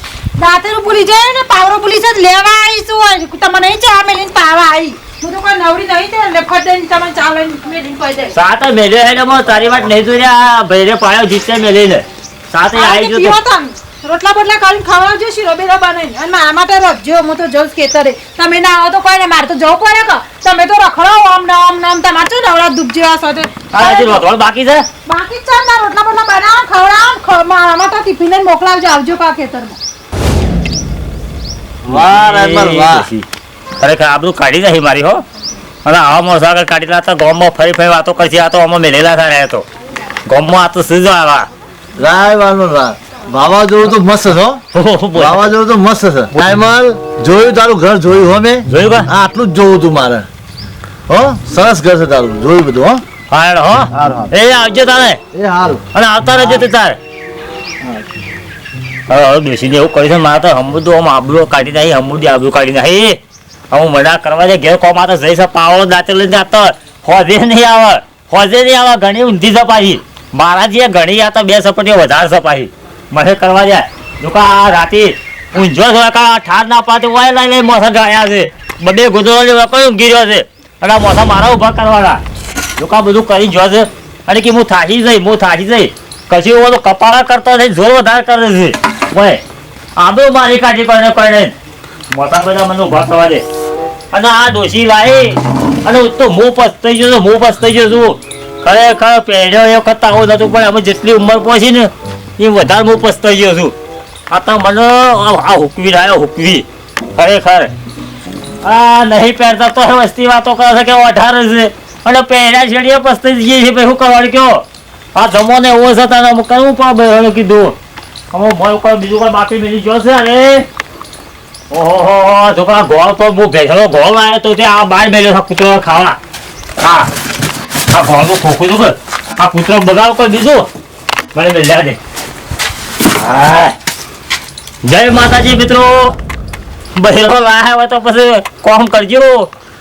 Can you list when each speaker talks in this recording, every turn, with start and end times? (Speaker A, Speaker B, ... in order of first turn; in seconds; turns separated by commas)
Speaker A: 0.3-8.3, Speaker B: 8.3-13.4, Speaker A: 12.7-24.2, Speaker B: 23.7-24.8, Speaker A: 25.1-29.8, Speaker B: 31.8-33.2, Speaker C: 31.9-33.1, Speaker B: 33.8-35.2, Speaker B: 35.8-39.6, Speaker B: 40.2-41.5, Speaker C: 42.0-44.6, Speaker B: 44.7-45.5, Speaker C: 45.1-50.2, Speaker B: 48.7-49.1, Speaker C: 51.1-53.0, Speaker B: 53.3-55.2, Speaker C: 53.9-54.3, Speaker C: 55.3-55.8, Speaker B: 55.9-57.0, Speaker C: 56.4-56.7, Speaker C: 57.8-58.0, Speaker B: 59.1-63.2, Speaker B: 63.7-82.2, Speaker B: 82.8-89.4, Speaker B: 90.0-91.5, Speaker B: 92.1-93.4, Speaker B: 94.1-103.7, Speaker B: 104.3-107.7, Speaker B: 108.6-114.6, Speaker B: 115.1-117.7, Speaker B: 118.3-120.7, Speaker B: 121.7-126.2, Speaker B: 126.8-127.1, Speaker B: 127.9-130.7, Speaker B: 131.3-132.0, Speaker B: 133.0-133.7, Speaker B: 134.8-136.1, Speaker B: 136.9-139.5